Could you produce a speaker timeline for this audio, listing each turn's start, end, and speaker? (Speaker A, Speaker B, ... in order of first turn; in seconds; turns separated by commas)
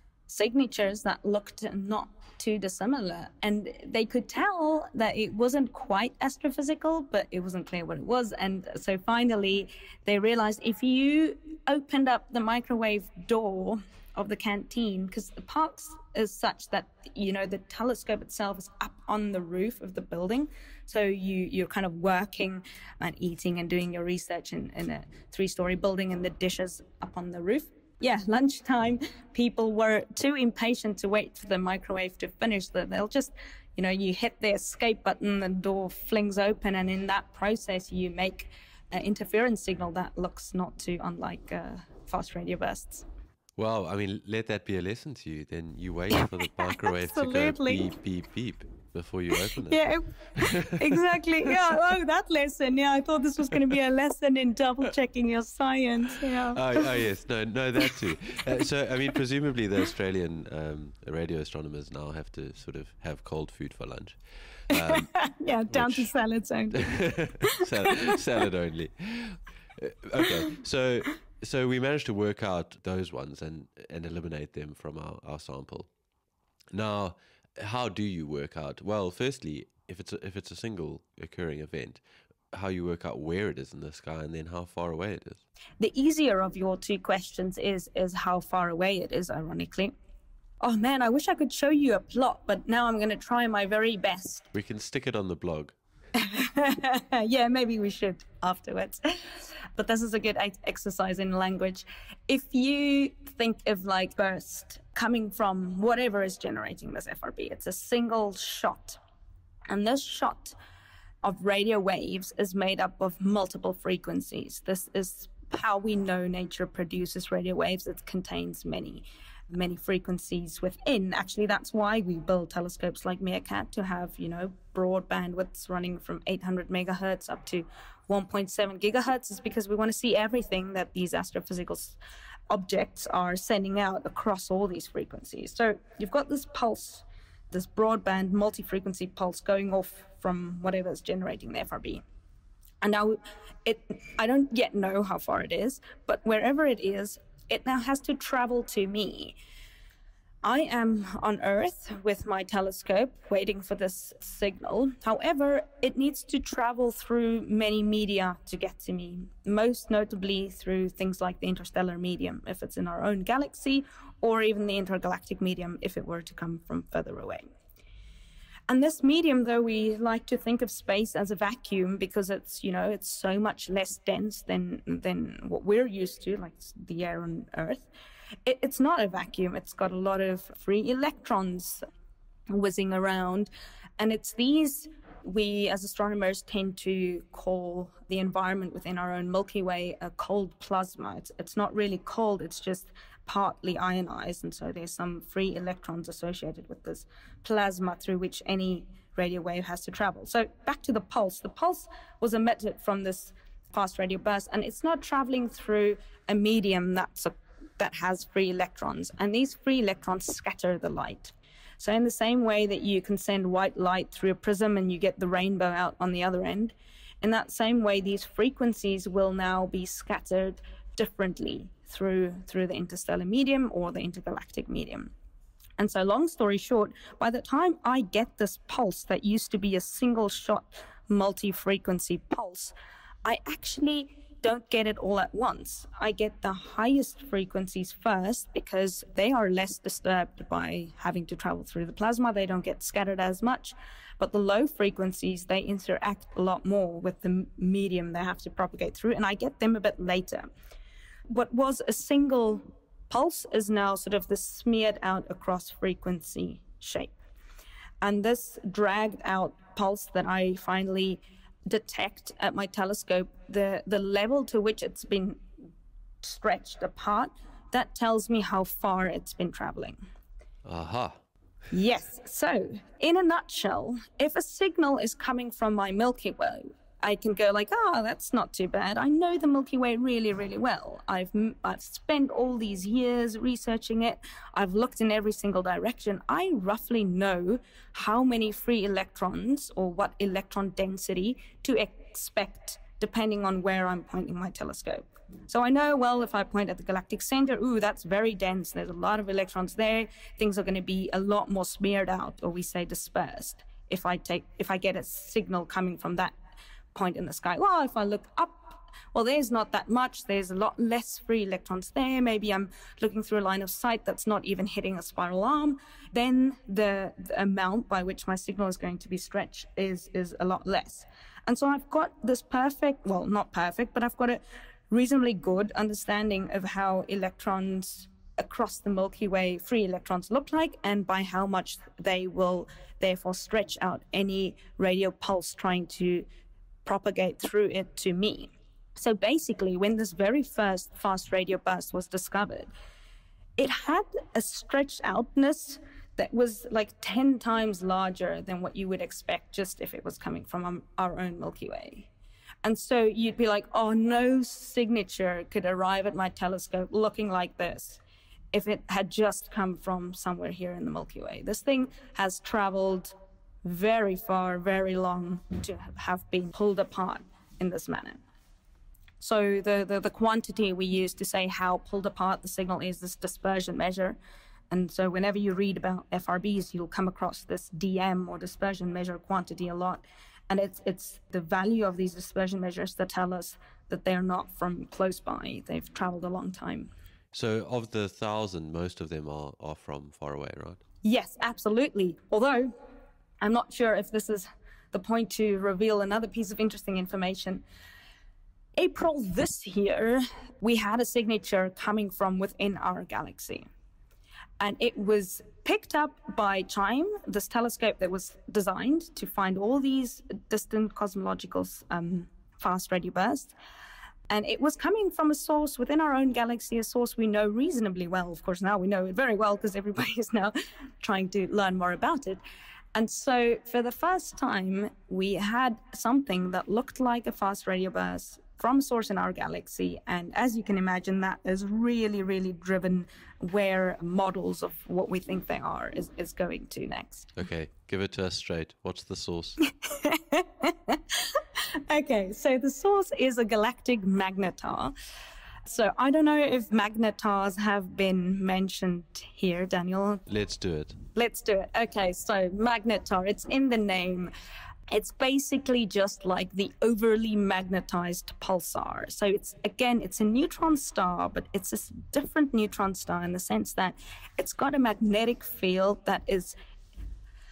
Speaker A: 0.3-43.1, Speaker B: 43.6-49.8, Speaker A: 47.0-47.9, Speaker A: 49.6-56.9, Speaker B: 50.4-50.7, Speaker B: 56.5-66.1, Speaker A: 64.8-68.1, Speaker B: 66.8-75.9, Speaker B: 76.7-82.0, Speaker B: 82.5-85.4, Speaker A: 85.8-89.9, Speaker A: 90.6-94.5, Speaker B: 94.5-95.8, Speaker A: 96.2-109.0, Speaker A: 109.7-110.6, Speaker A: 111.2-132.0, Speaker A: 132.5-142.0, Speaker A: 142.8-149.4, Speaker A: 150.4-167.4, Speaker A: 168.7-177.9, Speaker A: 178.4-181.8, Speaker A: 182.5-225.1, Speaker A: 225.8-232.7, Speaker A: 233.2-250.5, Speaker A: 251.3-257.1, Speaker A: 258.0-265.4, Speaker A: 266.2-270.0, Speaker B: 270.6-271.2, Speaker A: 271.7-306.4, Speaker A: 306.9-336.3, Speaker A: 336.9-342.7, Speaker A: 343.6-352.1, Speaker A: 352.6-358.0, Speaker A: 358.5-368.2, Speaker A: 369.2-374.2, Speaker A: 374.7-386.9, Speaker B: 387.3-390.8, Speaker A: 391.0-392.7, Speaker A: 393.4-397.6, Speaker A: 398.8-403.7, Speaker A: 404.6-413.5, Speaker A: 414.3-422.4, Speaker A: 422.9-437.3, Speaker B: 437.4-439.6, Speaker A: 439.8-444.9, Speaker A: 445.7-450.2, Speaker B: 450.3-451.0, Speaker A: 451.1-454.3, Speaker A: 454.9-466.6